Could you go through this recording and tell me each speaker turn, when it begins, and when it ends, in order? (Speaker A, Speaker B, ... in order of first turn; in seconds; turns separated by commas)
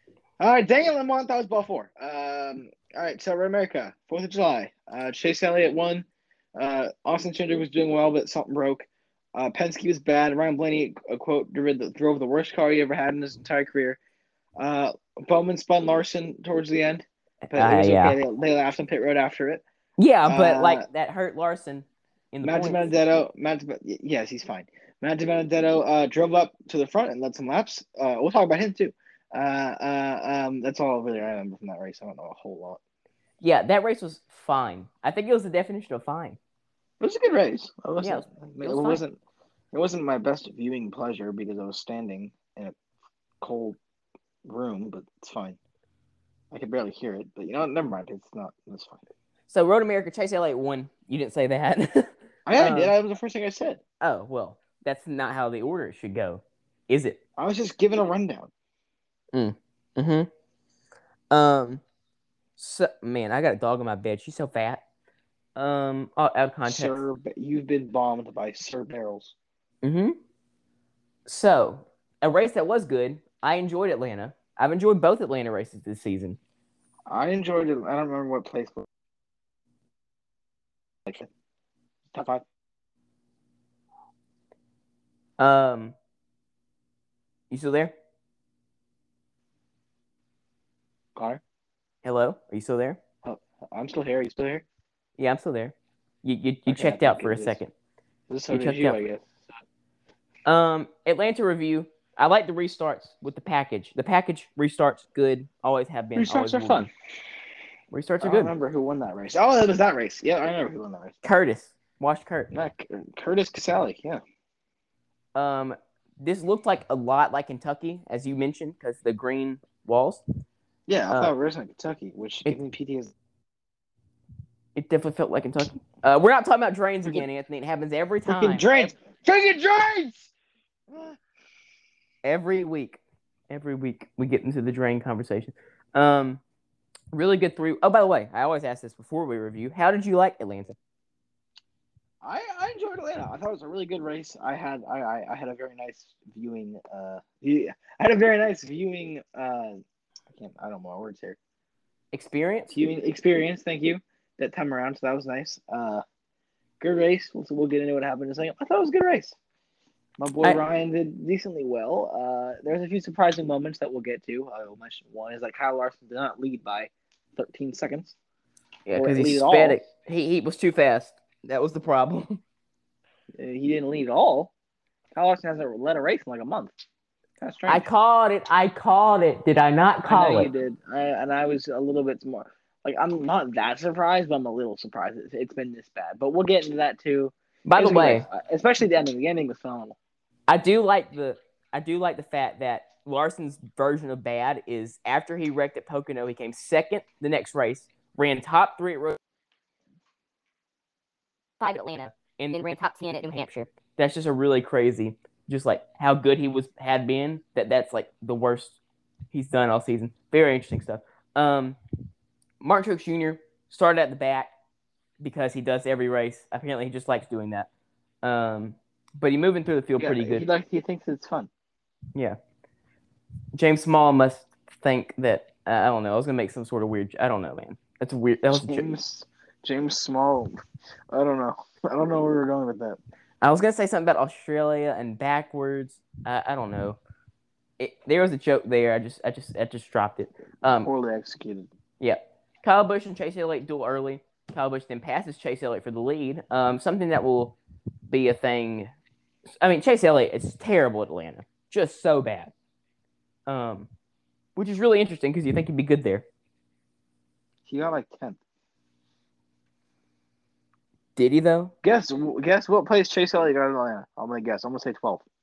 Speaker A: 0.4-14.0, Speaker A: 14.6-19.6, Speaker B: 17.5-18.2, Speaker B: 20.0-22.9, Speaker A: 20.3-20.8, Speaker A: 22.4-32.8, Speaker B: 33.4-36.4, Speaker A: 37.0-39.2, Speaker B: 38.0-39.0, Speaker A: 39.7-42.7, Speaker A: 43.4-43.8, Speaker A: 44.4-45.6, Speaker A: 46.5-49.0, Speaker B: 49.5-52.9, Speaker A: 52.5-53.8, Speaker B: 54.0-57.2, Speaker A: 57.4-58.5, Speaker B: 59.3-60.3, Speaker B: 61.3-61.8, Speaker B: 62.6-64.8, Speaker B: 65.5-67.0, Speaker A: 66.7-69.3, Speaker B: 69.8-70.2, Speaker B: 71.2-76.4, Speaker A: 77.1-78.9, Speaker A: 82.1-82.4, Speaker B: 85.4-86.0, Speaker B: 87.5-87.9, Speaker A: 91.2-91.4, Speaker B: 92.0-93.0, Speaker A: 93.2-94.7, Speaker B: 95.2-97.7, Speaker A: 96.7-97.6, Speaker A: 98.3-99.3, Speaker B: 98.5-99.0, Speaker B: 100.5-106.9, Speaker A: 106.2-106.9, Speaker B: 107.9-108.5, Speaker A: 108.2-111.2, Speaker B: 111.2-112.5, Speaker A: 112.5-114.2, Speaker B: 115.3-120.2, Speaker A: 120.9-123.1, Speaker B: 124.7-128.9, Speaker A: 128.3-130.3, Speaker A: 130.9-131.2, Speaker B: 132.2-136.4, Speaker B: 137.1-140.8, Speaker A: 142.2-149.8, Speaker A: 150.3-151.4, Speaker B: 152.1-152.8, Speaker A: 152.7-156.0, Speaker A: 156.8-159.3, Speaker A: 160.2-168.2, Speaker B: 168.8-172.4, Speaker A: 168.9-169.8, Speaker A: 173.3-174.5, Speaker A: 175.1-176.7, Speaker A: 177.4-177.9, Speaker B: 177.7-180.5, Speaker A: 180.0-189.9, Speaker B: 187.6-188.3, Speaker B: 190.5-199.2, Speaker C: 201.6-203.7, Speaker B: 203.9-208.8, Speaker B: 209.3-211.8, Speaker B: 212.6-214.5, Speaker B: 215.2-217.7, Speaker B: 218.2-220.5, Speaker A: 220.0-221.5, Speaker B: 223.5-228.9, Speaker A: 228.5-230.5, Speaker A: 231.1-233.0, Speaker B: 233.4-237.0, Speaker B: 237.8-240.9, Speaker A: 240.6-241.7, Speaker B: 242.0-247.6, Speaker B: 248.1-248.9, Speaker B: 249.6-252.5, Speaker B: 253.5-253.9, Speaker B: 254.6-256.2, Speaker A: 257.6-258.4, Speaker B: 261.1-261.7, Speaker A: 261.8-265.2